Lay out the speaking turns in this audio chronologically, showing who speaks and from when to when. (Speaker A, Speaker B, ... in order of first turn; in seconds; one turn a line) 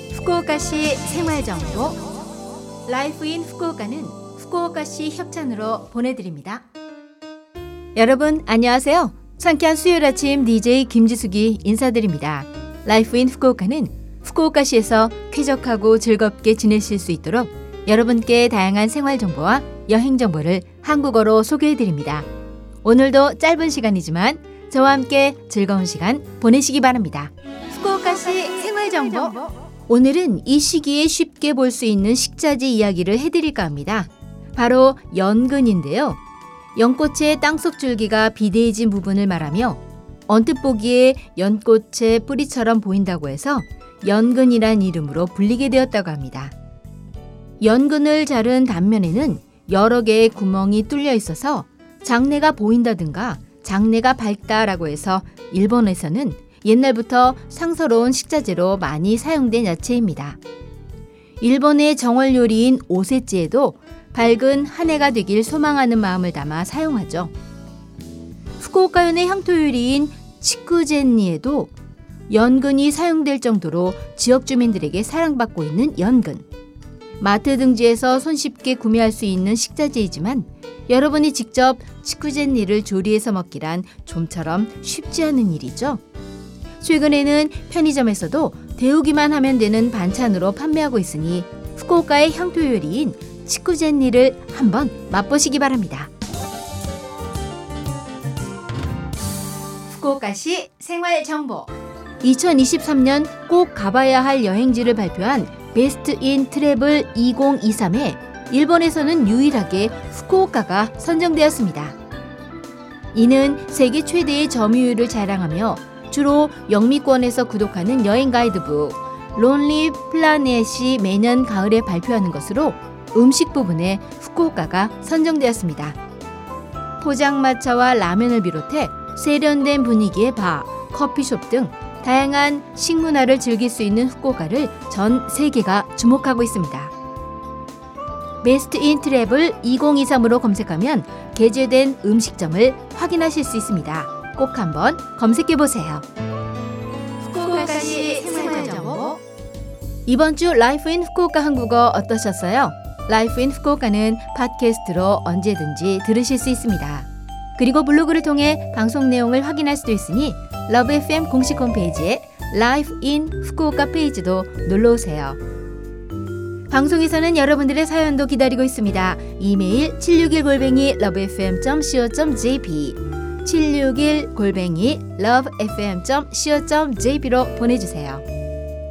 Speaker A: 0.1-2.1
Speaker A: 2.9-6.7
Speaker A: 8.0-22.3
Speaker A: 22.8-36.2
Speaker A: 36.8-46.5
Speaker A: 47.6-60.4
Speaker A: 61.4-67.3
Speaker A: 68.6-71.7
Speaker A: 72.3-76.5
Speaker A: 77.2-86.0
Speaker A: 86.8-96.1
Speaker A: 99.9-112.0
Speaker A: 113.1-126.0
Speaker A: 127.0-136.9
Speaker A: 138.4-146.1
Speaker A: 147.2-149.2
Speaker A: 150.1-165.4
Speaker A: 166.7-178.2